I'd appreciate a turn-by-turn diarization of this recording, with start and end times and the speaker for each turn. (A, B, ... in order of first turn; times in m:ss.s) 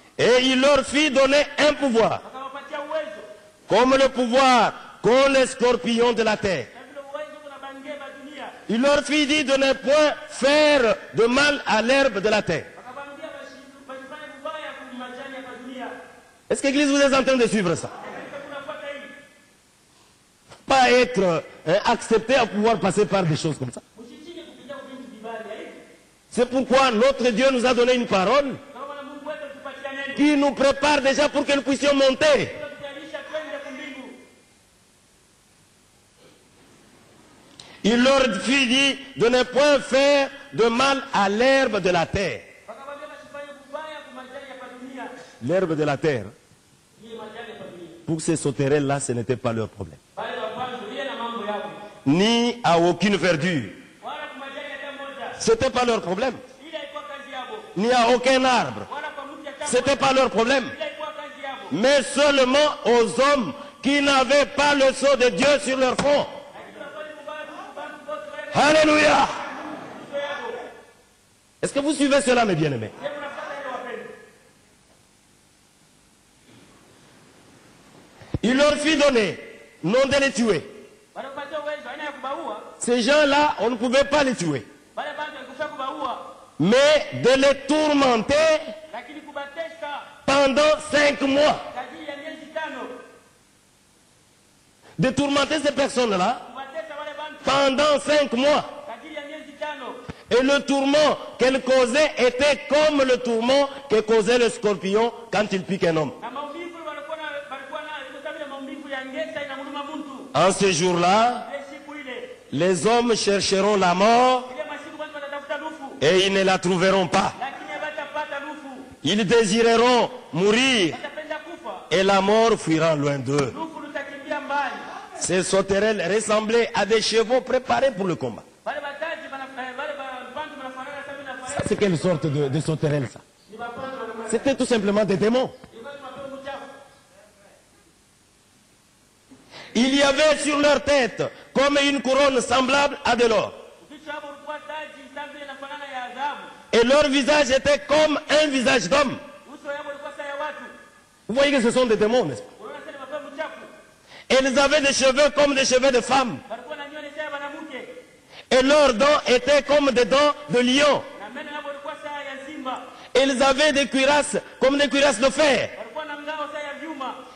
0:00.2-0:02.2 A
0:02.2-0:03.3 B
0:03.7-0:06.7 A
0:06.7-0:08.6 B
0:08.7-0:12.7 A
0:12.8-0:16.0 B
0:16.5-0:17.9 A
0:18.0-0:19.1 B
0:20.7-0:23.8 A
0:24.0-0:25.8 B
0:26.3-0:28.6 A
0:28.7-0:30.2 B
0:30.2-0:32.6 A
0:32.4-0:34.2 B
0:37.8-0:42.4 A
0:42.7-0:45.2 B
0:45.4-0:46.3 A
0:47.0-0:48.0 B
0:48.1-0:50.0 A
0:50.2-0:51.8 B
0:52.0-0:53.8 A
0:54.0-0:55.4 B
0:55.4-0:56.4 A
0:56.6-0:57.7 B
0:57.8-0:58.9 A
0:58.9-1:01.7 B
0:59.7-1:00.7 A
1:01.7-1:06.3 A
1:06.5-1:10.6 B
1:08.5-1:09.4 A
1:11.6-1:12.9 A
1:13.0-1:14.1 B
1:18.4-1:20.7 A
1:21.1-1:22.7 B
1:22.8-1:24.7 A
1:25.0-1:26.2 B
1:26.6-1:28.7 A
1:28.9-1:30.1 B
1:30.3-1:31.6 A
1:31.7-1:32.9 B
1:35.0-1:36.4 A
1:36.4-1:37.6 B
1:37.4-1:38.7 A
1:38.8-1:40.0 B
1:40.3-1:46.2 A
1:46.2-1:50.3 B
1:50.3-1:51.5 A
1:51.4-1:52.4 B
1:52.5-1:54.5 A
1:54.5-1:56.0 B
1:56.0-1:57.4 A
1:57.4-1:58.9 B
1:59.0-2:01.0 A
2:00.9-2:01.9 B
2:01.9-2:03.6 A
2:03.4-2:04.9 B
2:05.2-2:08.4 A
2:08.6-2:12.4 B
2:11.5-2:13.2 A
2:13.5-2:14.6 B
2:14.3-2:15.6 A
2:15.7-2:16.7 B
2:19.7-2:23.6 A
2:23.8-2:26.5 B
2:26.7-2:29.2 A
2:29.4-2:30.7 B
2:31.3-2:32.5 A
2:32.6-2:33.7 B
2:34.3-2:36.4 A
2:36.5-2:38.0 B
2:38.5-2:41.0 A
2:41.1-2:42.9 B
2:43.1-2:45.7 A
2:45.8-2:47.2 B